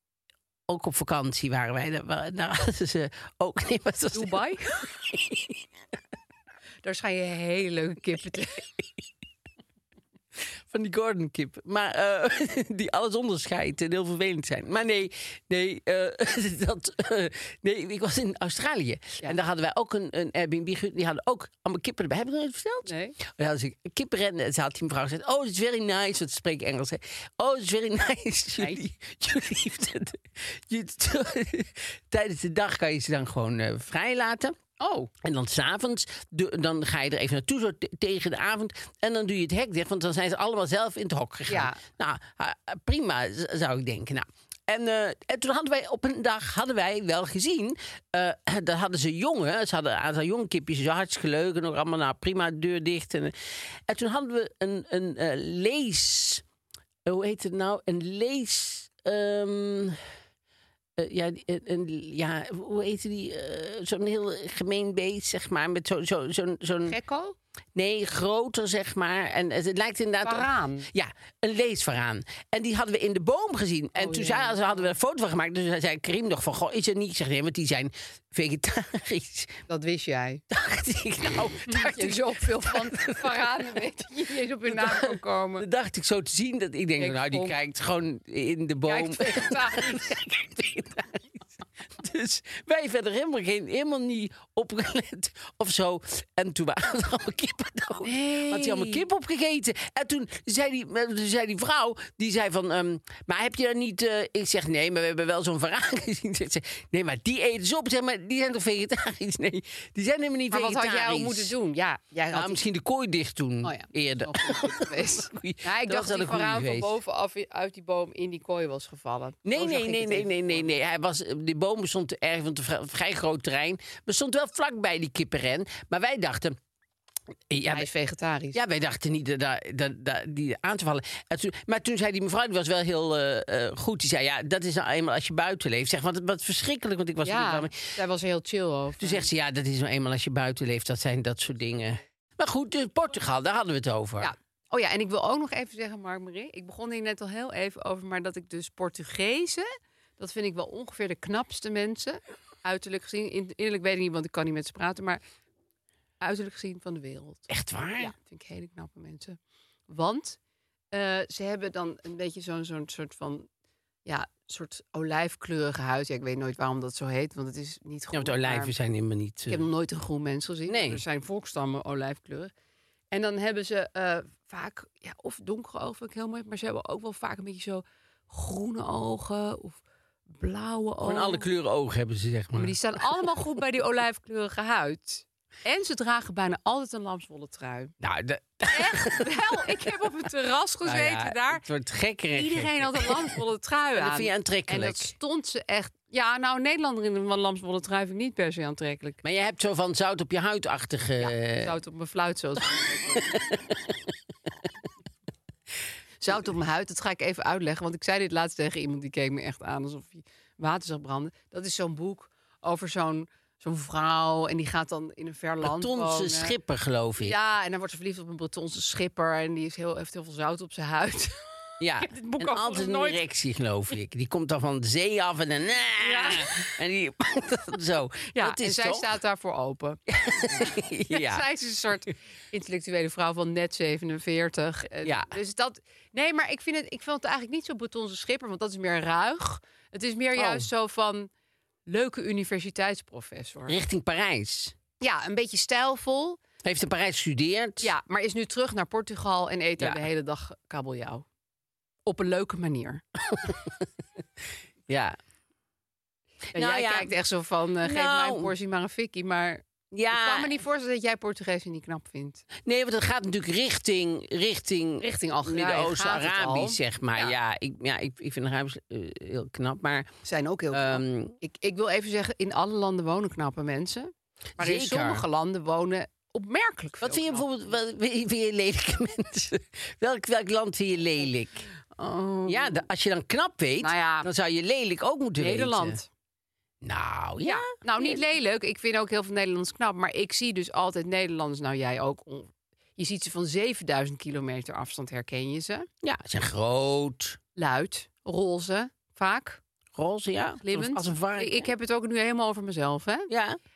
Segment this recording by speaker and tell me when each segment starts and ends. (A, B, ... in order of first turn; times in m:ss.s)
0:00.7-0:05.6 A
0:04.1-0:04.7 B
0:06.8-0:08.6 B
0:10.7-0:34.6 A
0:22.9-0:23.2 B
0:34.8-0:35.1 B
0:35.2-0:53.3 A
0:41.5-0:41.8 B
0:53.9-0:56.4 A
0:57.1-1:00.0 A
1:01.0-1:07.0 A
1:06.9-1:07.4 B
1:07.8-1:19.6 A
1:10.2-1:10.9 B
1:14.0-1:14.9 B
1:19.7-1:20.4 B
1:20.5-1:23.6 A
1:21.7-1:25.6 B
1:24.7-1:31.2 A
1:27.0-1:27.6 B
1:28.9-1:30.1 B
1:32.0-1:51.5 A
1:38.0-1:39.0 B
1:50.5-1:52.6 B
1:52.3-1:56.9 A
1:53.6-2:00.7 B
1:59.5-2:06.6 A
2:07.5-2:07.9 A
2:07.7-2:08.6 B
2:08.5-2:17.9 A
2:17.2-2:19.3 B
2:19.0-2:24.3 A
2:24.2-2:35.2 B
2:36.2-2:37.4 B
2:37.5-2:38.1 A
2:38.0-2:39.4 B
2:39.9-2:40.4 B
2:40.9-2:43.5 B
2:44.1-2:48.8 B
2:48.1-2:49.7 A
2:49.5-2:52.5 B
2:50.7-2:51.0 A
2:53.1-3:01.5 B
3:01.0-3:03.2 A
3:02.6-3:07.9 B
3:08.0-3:09.9 A
3:08.7-3:11.6 B
3:10.8-3:13.4 A
3:12.4-3:19.2 B
3:14.0-3:15.1 A
3:19.2-3:21.8 A
3:21.2-3:23.4 B
3:23.2-3:23.7 A
3:26.2-3:36.6 B
3:35.6-3:37.4 A
3:37.2-3:43.2 B
3:41.8-3:49.1 A
3:46.0-3:46.6 B
3:48.3-3:50.0 B
3:50.1-3:51.4 A
3:50.5-4:01.3 B
3:55.0-3:55.3 A
4:00.4-4:00.7 A
4:01.9-4:03.8 B
4:03.7-4:04.7 A
4:05.0-4:06.4 B
4:06.6-4:07.9 A
4:07.8-4:11.2 B
4:12.1-4:13.0 B
4:13.3-4:13.7 A
4:14.9-4:15.2 A
4:16.5-4:22.4 B
4:16.6-4:17.1 A
4:17.8-4:18.5 A
4:19.9-4:20.6 A
4:22.6-4:30.1 A
4:25.0-4:27.4 B
4:30.2-4:37.5 B
4:30.7-4:31.4 A
4:34.6-4:35.2 A
4:37.0-4:41.6 A
4:41.9-4:42.9 B
4:42.5-4:46.0 A
4:43.8-4:44.3 B
4:45.4-4:46.1 B
4:46.8-4:48.2 A
4:47.4-4:55.9 B
4:56.0-4:57.4 A
4:57.6-4:59.6 B
5:00.0-5:01.7 A
5:00.6-5:03.3 B
5:03.3-5:03.6 A